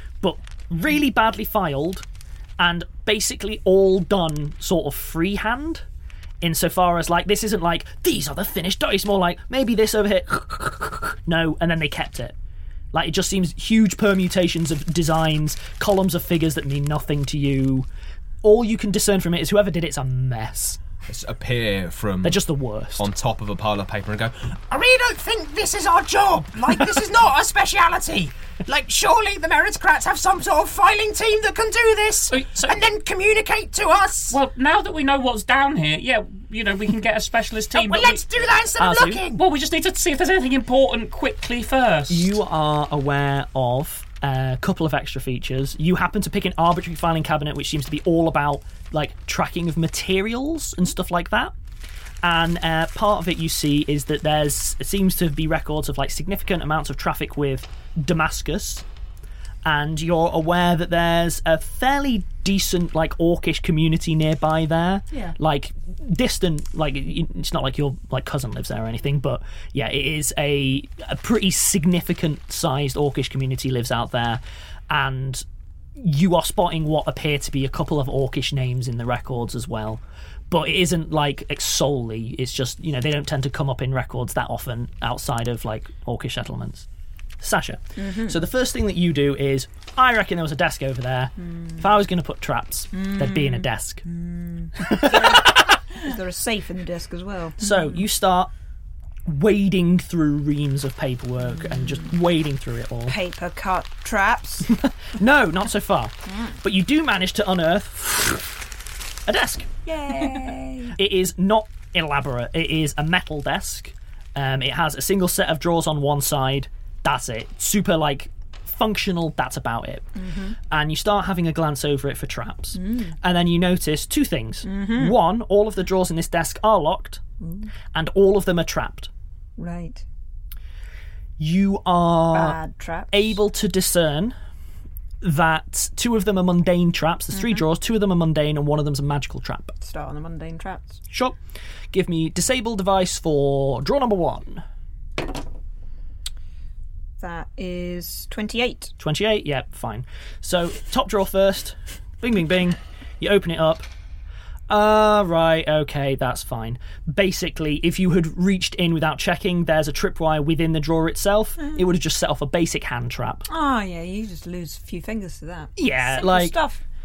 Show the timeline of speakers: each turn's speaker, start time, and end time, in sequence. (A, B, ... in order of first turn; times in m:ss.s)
0:00.2-0:02.0 A
0:02.6-0:05.8 A
0:06.4-0:12.4 A
0:12.9-0:17.9 A
0:18.4-0:20.8 A
0:21.1-0:22.4 B
0:22.2-0:23.0 A
0:23.0-0:24.5 B
0:24.7-0:34.4 C
0:32.3-0:32.8 D
0:34.3-0:38.2 D
0:37.7-0:39.4 C
0:38.8-0:39.2 A
0:39.4-0:42.3 D
0:42.1-0:51.5 A
0:52.2-0:58.8 A
0:59.6-1:15.4 A
1:16.0-1:26.9 A
1:27.4-1:34.1 A
1:28.0-1:28.4 E
1:32.9-1:37.8 E
1:34.8-1:35.4 A
1:37.6-1:38.5 A
1:39.2-1:43.2 A
1:41.6-1:42.1 E
1:43.1-1:44.7 E
1:44.8-1:48.6 A
1:46.3-1:46.6 E
1:49.2-1:49.7 A
1:49.9-1:51.0 E
1:51.0-2:00.1 A
2:00.2-2:00.6 E
2:00.7-2:07.2 A
2:02.8-2:03.2 E
2:04.6-2:05.2 E
2:07.4-2:07.7 E
2:07.9-2:09.1 A
2:09.6-2:10.0 E
2:11.4-2:12.6 A
2:12.3-2:13.4 E
2:13.1-2:14.4 A
2:15.2-2:19.8 A
2:17.3-2:17.6 E
2:19.8-2:21.0 E
2:21.1-2:21.4 A
2:21.9-2:24.6 A
2:27.2-2:28.9 E
2:29.0-2:33.9 A
2:34.7-2:43.5 A
2:43.5-2:46.8 E
2:45.8-2:46.6 A